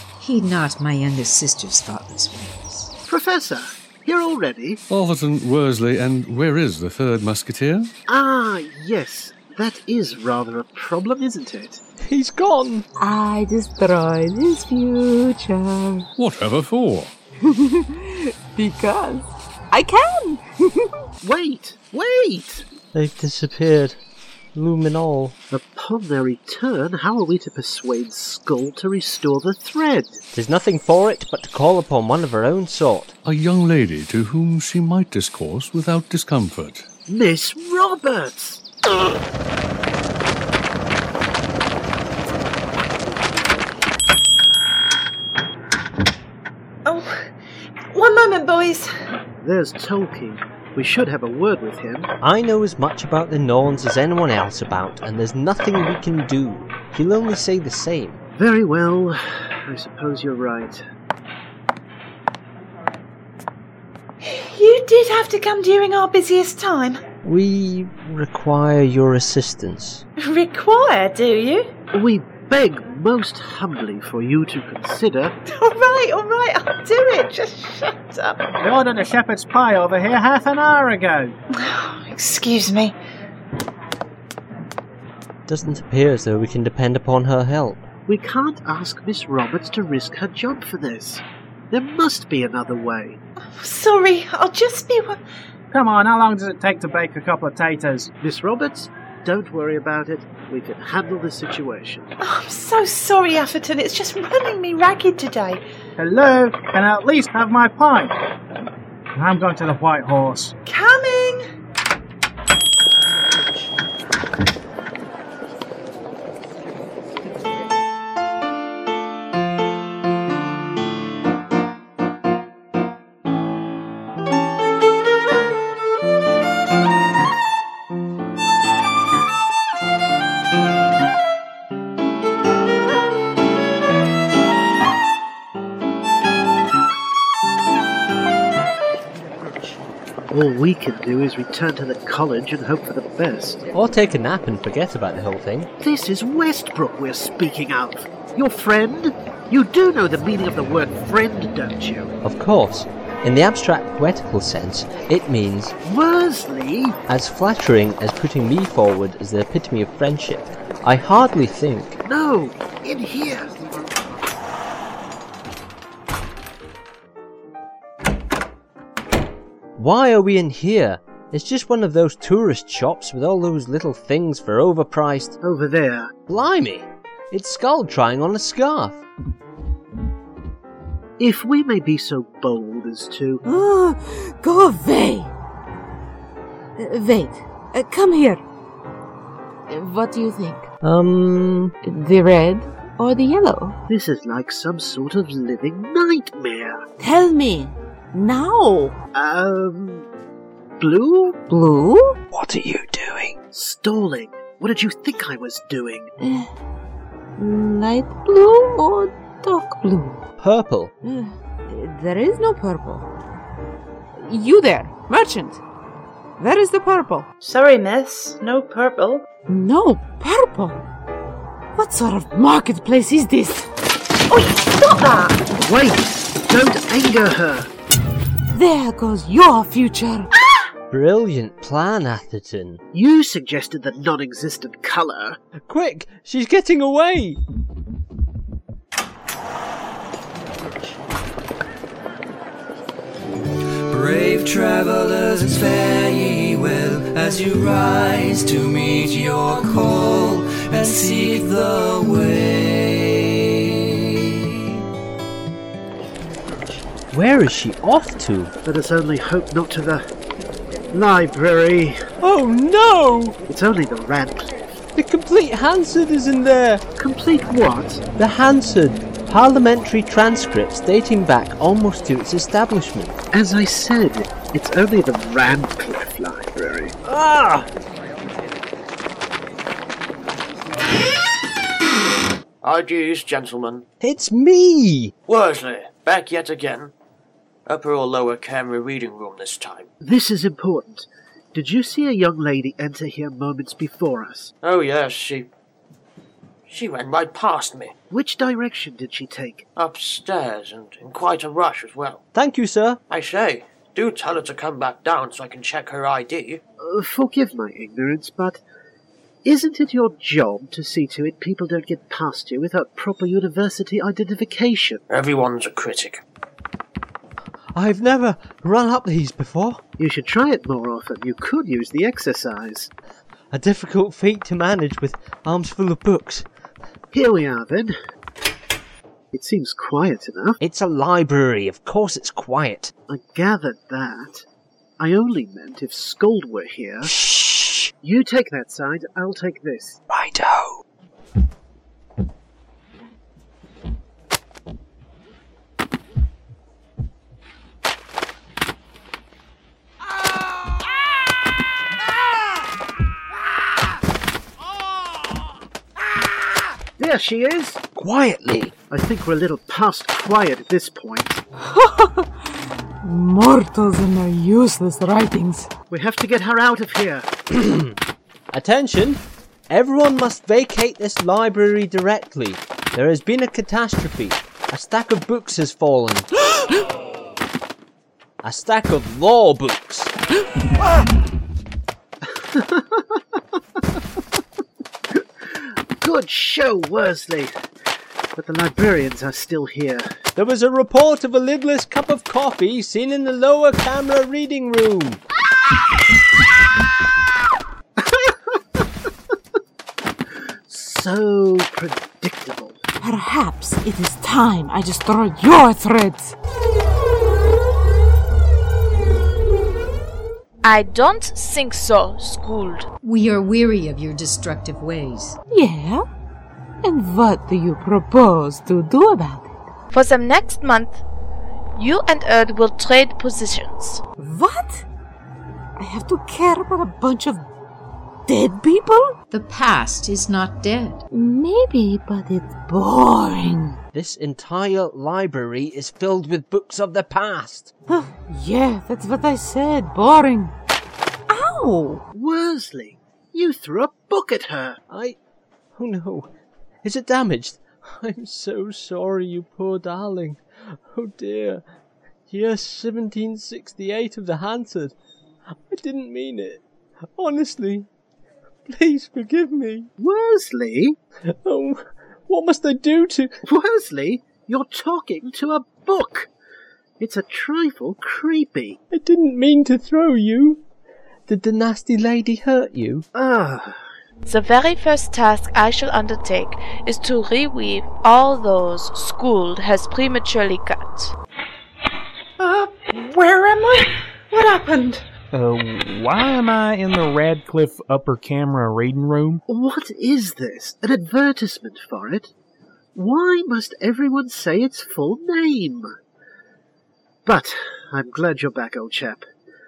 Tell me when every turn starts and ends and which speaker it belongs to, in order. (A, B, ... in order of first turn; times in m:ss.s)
0:00.2-0:02.9 A
0:03.1-0:04.8 B
0:04.9-0:07.9 C
0:08.1-0:11.8 B
0:12.0-0:12.9 D
0:13.0-0:16.1 E
0:16.2-0:17.1 C
0:17.4-0:20.9 E
0:21.2-0:22.6 B
0:22.9-0:24.0 D
0:24.6-0:25.4 D
0:25.5-0:30.2 B
0:30.3-0:33.2 D
0:33.2-0:36.9 C
0:37.1-0:38.6 B
0:46.8-0:47.3 F
0:47.9-0:48.9 F
0:49.4-0:52.1 B
0:52.2-0:58.2 D
0:58.4-1:00.8 B
1:04.2-1:07.0 F
1:07.2-1:10.0 D
1:10.2-1:11.7 F
1:11.9-1:15.3 B
1:15.5-1:18.5 F
1:18.6-1:21.3 G
1:21.6-1:23.0 F
1:25.5-1:27.8 D
1:28.1-1:33.2 B
1:33.5-1:35.2 F
1:35.7-1:38.1 G
1:38.2-1:42.1 B
1:42.2-1:45.6 F
1:46.0-1:48.1 G
1:49.2-1:50.5 G
1:50.6-1:51.5 F
2:20.3-2:23.6 B
2:23.7-2:25.7 D
2:25.8-2:32.1 B
2:32.2-2:35.8 D
2:35.8-2:37.0 B
2:37.1-2:42.0 D
2:42.0-2:43.9 B
2:49.8-2:55.4 D
2:55.4-2:56.1 B
2:56.3-2:59.0 D
3:01.2-3:03.4 B
3:03.5-3:05.3 E
3:06.8-3:08.4 E
3:09.7-3:10.7 E
3:10.8-3:11.7 D
3:11.8-3:13.8 E
3:13.9-3:16.8 B
3:17.0-3:19.0 E
3:19.1-3:20.1 B
3:20.8-3:21.4 B
3:21.5-3:22.2 E
3:23.5-3:26.1 B
3:26.2-3:26.5 E
3:27.4-3:30.2 E
3:30.4-3:30.9 D
3:31.0-3:33.1 E
3:34.2-3:35.6 E
3:36.4-3:37.3 E
3:37.4-3:39.3 F
3:39.5-3:40.8 E
3:41.8-3:43.7 E
3:44.5-3:45.4 E
3:45.6-3:47.7 B
3:48.5-3:50.3 E
3:50.9-3:52.8 D
3:52.9-3:55.4 B
3:55.7-3:57.4 D
4:03.9-4:14.3 H
4:17.1-4:18.5 D
4:18.6-4:20.0 B
4:20.9-4:22.0 B
4:22.2-4:23.4 D
4:23.5-4:24.6 B
4:25.0-4:26.8 D
4:27.0-4:28.0 B
4:28.2-4:33.2 D
4:33.3-4:37.0 B
4:37.0-4:37.7 D
4:42.6-4:43.8 I
4:44.0-4:45.1 D
4:45.3-4:46.9 I
4:47.7-4:49.9 I
4:50.0-4:54.5 B
4:54.6-4:55.5 I
4:56.7-4:57.9 I
4:58.1-4:59.6 B
4:59.8-5:02.2 I
5:02.3-5:03.0 D
5:03.1-5:06.6 I
5:06.8-5:08.6 B
5:09.4-5:15.0 B
5:15.1-5:16.2 I
5:17.8-5:19.8 D
5:20.0-5:22.9 B
5:23.5-5:26.5 D
5:27.1-5:27.9 B
5:29.3-5:30.6 B
5:30.6-5:32.9 D
5:33.1-5:34.4 B
5:35.0-5:37.2 B
5:37.0-5:37.9 D
5:38.0-5:40.0 B
5:40.1-5:40.4 D
5:57.0-5:57.8 B
5:58.1-5:58.5 D
5:58.1-5:58.6 I
5:58.9-6:01.4 B
6:01.7-6:02.3 E
6:03.0-6:05.7 E
6:05.9-6:07.3 B
6:07.5-6:07.9 D
6:08.5-6:16.3 D
6:18.4-6:20.1 D
6:22.5-6:23.2 B
6:25.6-6:27.5 B
6:28.4-6:30.1 B
6:30.4-6:35.2 D
6:38.0-6:38.8 B
6:40.7-6:42.8 B
6:43.0-6:46.4 E
6:50.6-6:52.9 J
6:53.0-6:55.4 A
6:55.5-6:56.0 E
6:56.8-6:59.5 E
6:59.9-7:01.0 J
7:01.8-7:04.0 J
7:04.2-7:04.9 E
7:05.8-7:07.5 E
7:08.3-7:09.2 E
7:09.3-7:11.0 A
7:11.1-7:13.8 E
7:13.9-7:17.7 D
7:17.9-7:20.5 E
7:21.3-7:22.0 E
7:22.1-7:24.8 B
7:24.9-7:25.2 D
7:25.8-7:26.3 D
7:26.8-7:31.6 D
7:32.3-7:35.0 D
7:35.7-7:36.6 D
7:37.2-7:37.9 D
7:38.7-7:39.9 D
7:40.0-7:41.0 B
7:41.3-7:43.4 D
7:43.5-7:46.3 B
7:47.0-7:48.8 B
7:48.9-7:50.6 D
7:51.3-7:53.1 D
7:53.1-7:53.8 B
7:54.3-8:01.1 J
8:02.4-8:05.0 F
8:05.3-8:09.4 K
8:09.5-8:12.3 B
8:13.0-8:15.9 B
8:17.3-8:19.2 B